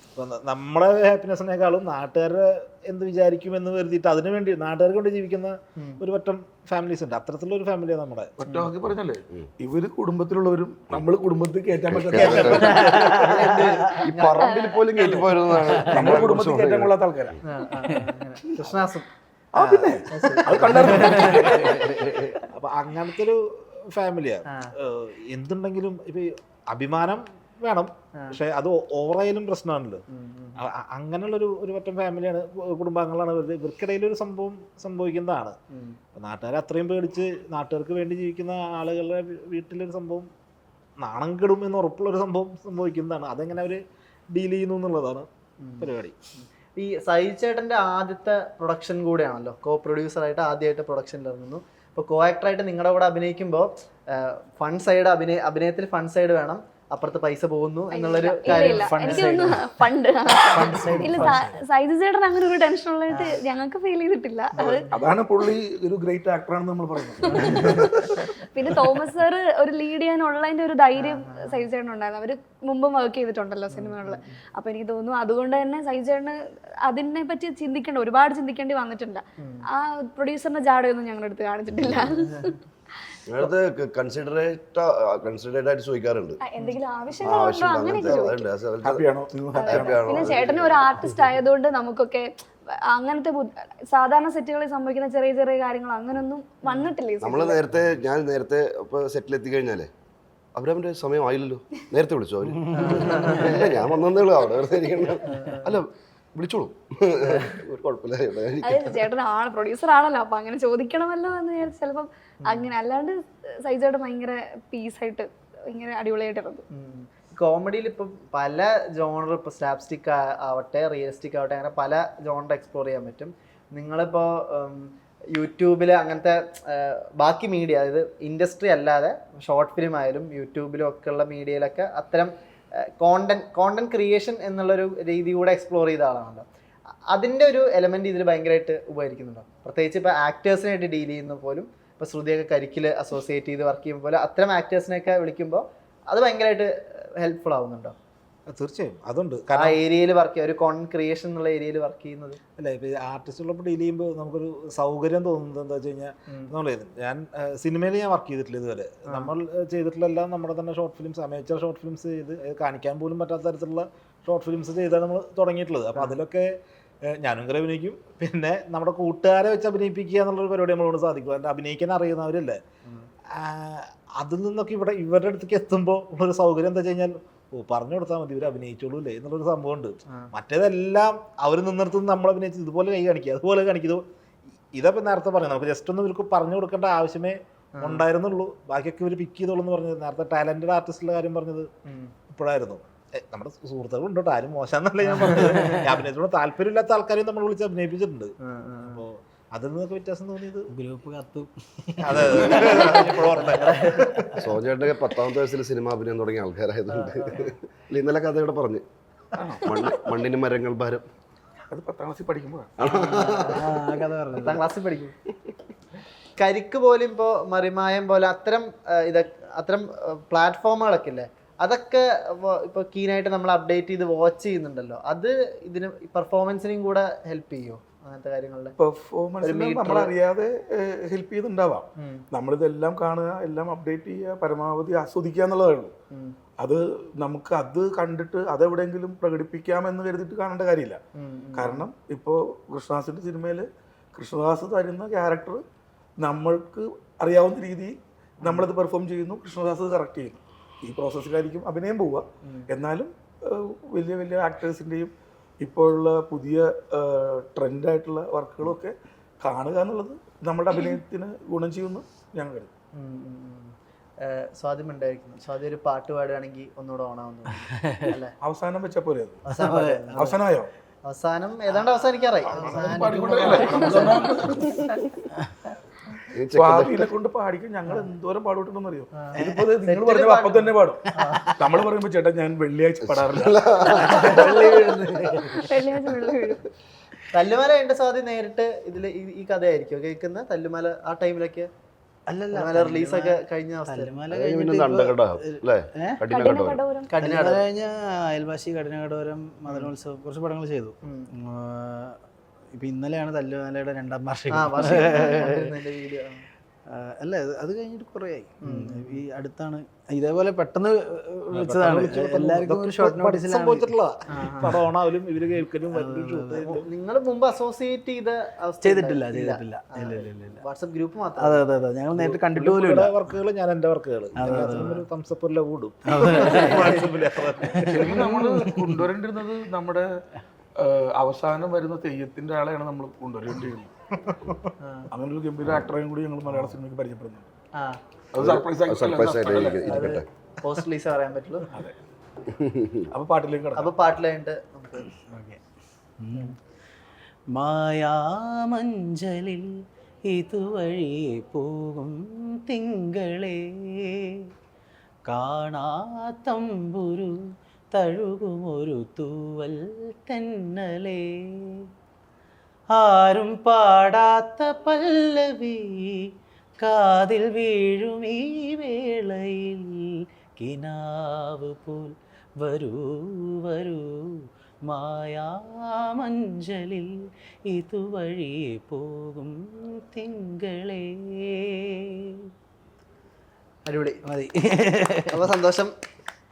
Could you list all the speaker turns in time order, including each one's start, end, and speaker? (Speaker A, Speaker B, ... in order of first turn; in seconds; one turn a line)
Speaker A: 0.1-8.3
Speaker B: 8.4-13.4
Speaker C: 11.9-12.5
Speaker A: 12.1-13.1
Speaker D: 12.5-13.6
Speaker E: 13.1-14.5
Speaker C: 14.0-16.9
Speaker F: 14.4-14.8
Speaker B: 14.9-15.2
Speaker B: 15.9-17.4
Speaker E: 17.4-22.4
Speaker D: 17.7-18.1
Speaker B: 19.5-21.7
Speaker D: 21.6-22.2
Speaker A: 22.5-30.0
Speaker E: 30.1-30.6
Speaker A: 30.6-35.6
Speaker E: 35.7-36.0
Speaker A: 36.2-40.3
Speaker A: 41.0-43.8
Speaker A: 44.3-45.3
Speaker E: 45.6-59.5
Speaker A: 45.8-46.1
Speaker F: 57.9-64.8
Speaker D: 58.5-59.7
Speaker E: 60.5-61.5
Speaker B: 60.6-61.5
Speaker E: 63.1-63.4
Speaker B: 64.7-68.2
Speaker E: 67.2-67.9
Speaker F: 67.5-82.5
Speaker E: 70.9-71.6
Speaker E: 73.7-74.3
Speaker E: 79.4-79.6
Speaker E: 82.1-82.5
Speaker C: 83.2-86.4
Speaker F: 86.5-88.4
Speaker C: 87.2-89.0
Speaker B: 88.8-90.4
Speaker F: 89.5-92.3
Speaker C: 89.6-91.1
Speaker F: 92.9-97.7
Speaker E: 96.7-96.9
Speaker C: 97.2-99.9
Speaker C: 100.5-109.0
Speaker D: 102.7-102.9
Speaker E: 102.7-103.7
Speaker E: 105.2-105.8
Speaker E: 107.2-107.5
Speaker F: 108.6-116.6
Speaker E: 112.5-112.7
Speaker E: 116.7-132.3
Speaker E: 133.0-136.4
Speaker E: 137.1-147.9
Speaker A: 148.5-149.8
Speaker E: 149.5-152.4
Speaker A: 152.6-166.5
Speaker A: 167.1-172.6
Speaker A: 173.3-184.0
Speaker A: 184.7-191.7
Speaker E: 187.8-188.0
Speaker E: 191.8-192.1
Speaker A: 192.2-198.3
Speaker E: 195.2-195.8
Speaker E: 198.4-199.0
Speaker A: 198.9-200.7
Speaker D: 200.7-203.0
Speaker A: 202.0-204.3
Speaker E: 202.8-204.0
Speaker C: 204.4-208.8
Speaker E: 206.9-207.4
Speaker B: 209.4-209.8
Speaker C: 209.7-211.0
Speaker B: 211.7-213.5
Speaker C: 212.8-213.5
Speaker E: 213.0-215.1
Speaker D: 213.5-214.7
Speaker E: 216.4-228.7
Speaker B: 228.8-235.9
Speaker E: 229.4-230.1
Speaker E: 232.0-232.2
Speaker B: 236.6-241.0
Speaker E: 241.1-241.9
Speaker B: 241.6-245.6
Speaker B: 246.2-262.7
Speaker E: 262.9-268.3
Speaker D: 267.7-268.1
Speaker B: 268.4-269.5
Speaker E: 269.5-270.3
Speaker D: 269.5-270.4
Speaker B: 270.1-270.7
Speaker E: 271.0-274.3
Speaker B: 272.4-274.9
Speaker C: 276.3-277.1
Speaker B: 276.5-284.7
Speaker E: 279.1-281.6
Speaker C: 283.0-285.3
Speaker E: 284.0-285.6
Speaker D: 284.7-285.6
Speaker F: 285.6-286.6
Speaker E: 287.3-291.7
Speaker D: 292.3-296.2
Speaker E: 292.5-294.2
Speaker C: 294.3-296.8
Speaker F: 296.3-297.2
Speaker E: 297.1-297.6
Speaker D: 297.2-302.2
Speaker E: 299.6-299.9
Speaker D: 302.8-305.8
Speaker E: 304.5-306.4
Speaker D: 306.9-313.9
Speaker E: 308.6-309.2
Speaker A: 311.5-316.8
Speaker E: 314.3-314.9
Speaker D: 315.4-316.7
Speaker E: 316.6-321.6
Speaker D: 318.8-320.6
Speaker D: 321.4-323.2
Speaker A: 322.1-327.9
Speaker D: 324.3-325.1
Speaker D: 326.1-327.0
Speaker D: 327.6-329.0
Speaker B: 327.8-330.1
Speaker B: 330.8-333.9
Speaker A: 334.2-334.5
Speaker E: 334.8-335.1
Speaker B: 335.1-337.5
Speaker B: 338.3-340.2
Speaker C: 338.4-340.2
Speaker E: 339.8-341.7
Speaker B: 341.7-341.9
Speaker C: 342.6-343.1
Speaker B: 343.1-343.9
Speaker E: 343.7-345.1
Speaker D: 345.3-345.6
Speaker D: 346.2-346.6
Speaker D: 347.5-354.5
Speaker D: 355.3-357.4
Speaker D: 357.9-361.9
Speaker D: 362.9-382.5
Speaker E: 383.9-384.2
Speaker D: 384.2-385.5
Speaker E: 385.3-385.9